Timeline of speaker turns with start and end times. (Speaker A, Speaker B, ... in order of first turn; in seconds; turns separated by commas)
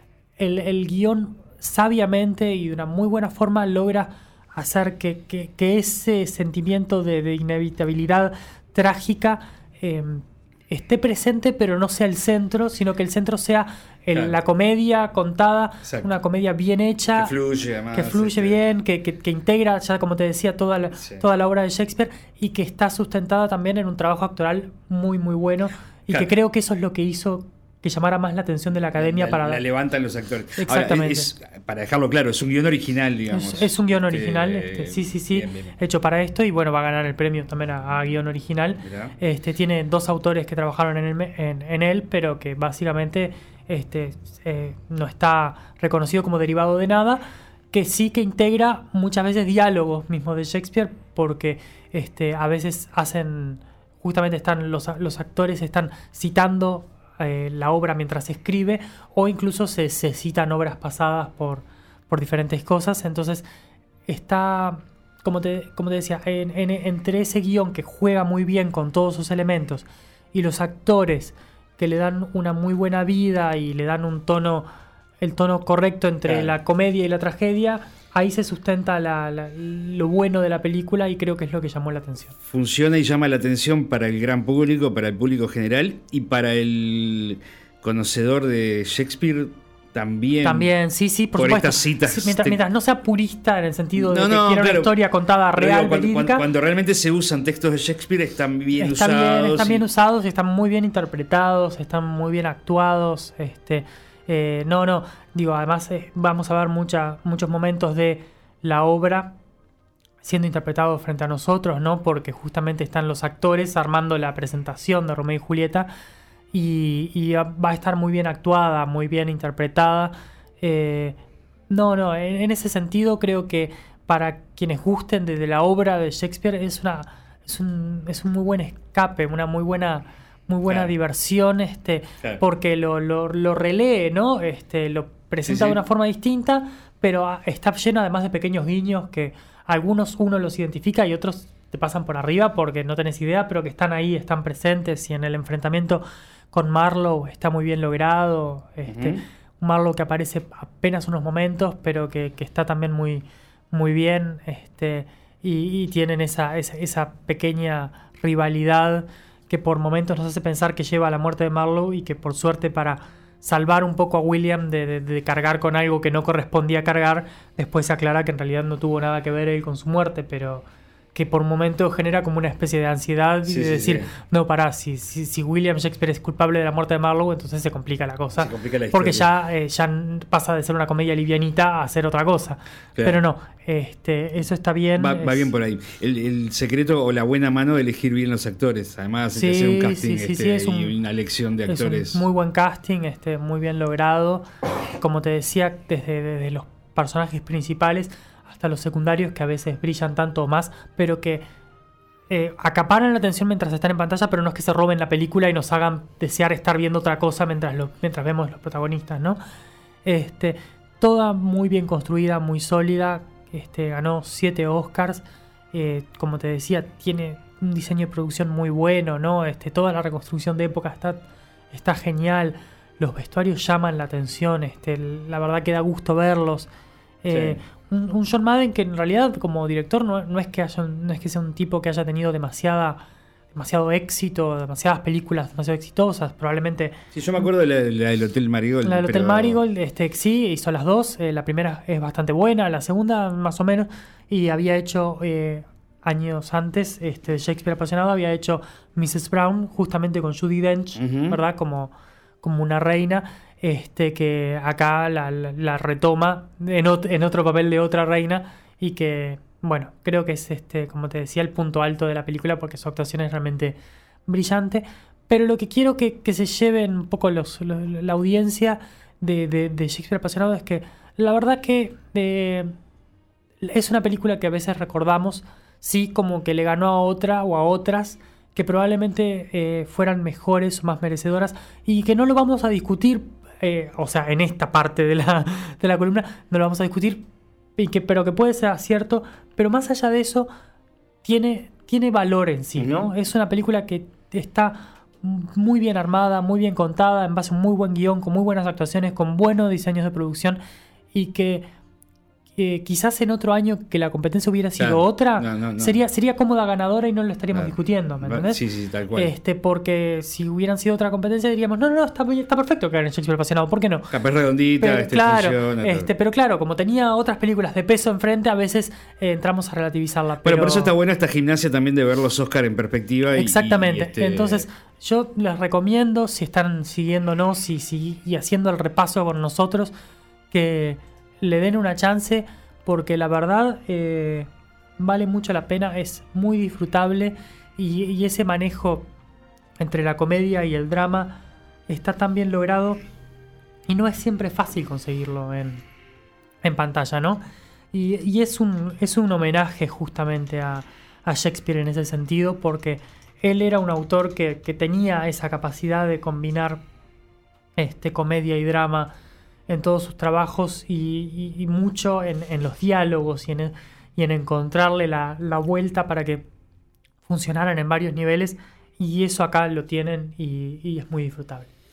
Speaker A: 0.4-17.3, Speaker B: 17.1-18.6, Speaker A: 17.9-29.6, Speaker B: 20.9-21.2, Speaker B: 28.9-35.7, Speaker A: 30.6-31.3, Speaker A: 33.3-63.4, Speaker B: 38.8-39.1, Speaker A: 64.1-74.7, Speaker A: 75.2-82.3, Speaker B: 76.2-76.5, Speaker B: 82.5-90.7, Speaker A: 90.4-96.5, Speaker B: 91.3-92.6, Speaker B: 93.9-95.0, Speaker B: 95.5-99.8, Speaker A: 98.8-109.3, Speaker A: 110.2-115.9, Speaker A: 116.5-121.2, Speaker A: 121.7-185.5, Speaker B: 130.7-130.9, Speaker B: 135.4-135.8, Speaker B: 148.8-149.2, Speaker B: 173.4-174.1, Speaker B: 178.4-179.3, Speaker B: 185.0-192.2, Speaker A: 189.3-190.9, Speaker A: 191.7-194.4, Speaker A: 195.0-201.4, Speaker A: 202.3-209.4, Speaker A: 210.0-226.7, Speaker A: 227.2-233.0, Speaker B: 227.3-227.6, Speaker A: 233.5-237.5, Speaker B: 237.1-239.6, Speaker A: 238.8-272.7, Speaker B: 251.0-251.4, Speaker A: 273.6-287.2, Speaker A: 287.8-290.5, Speaker A: 291.2-300.6, Speaker B: 292.8-293.1, Speaker A: 301.1-301.7, Speaker A: 302.6-308.6, Speaker B: 304.8-306.0, Speaker B: 307.5-309.3, Speaker A: 309.1-314.1, Speaker B: 314.1-316.1, Speaker A: 314.8-320.9, Speaker B: 320.4-324.7, Speaker A: 323.3-329.9, Speaker A: 330.5-339.1, Speaker A: 339.8-343.0, Speaker A: 343.9-345.8, Speaker A: 346.6-347.4, Speaker A: 347.9-356.8, Speaker A: 357.8-359.1, Speaker A: 359.7-366.4, Speaker A: 367.2-371.7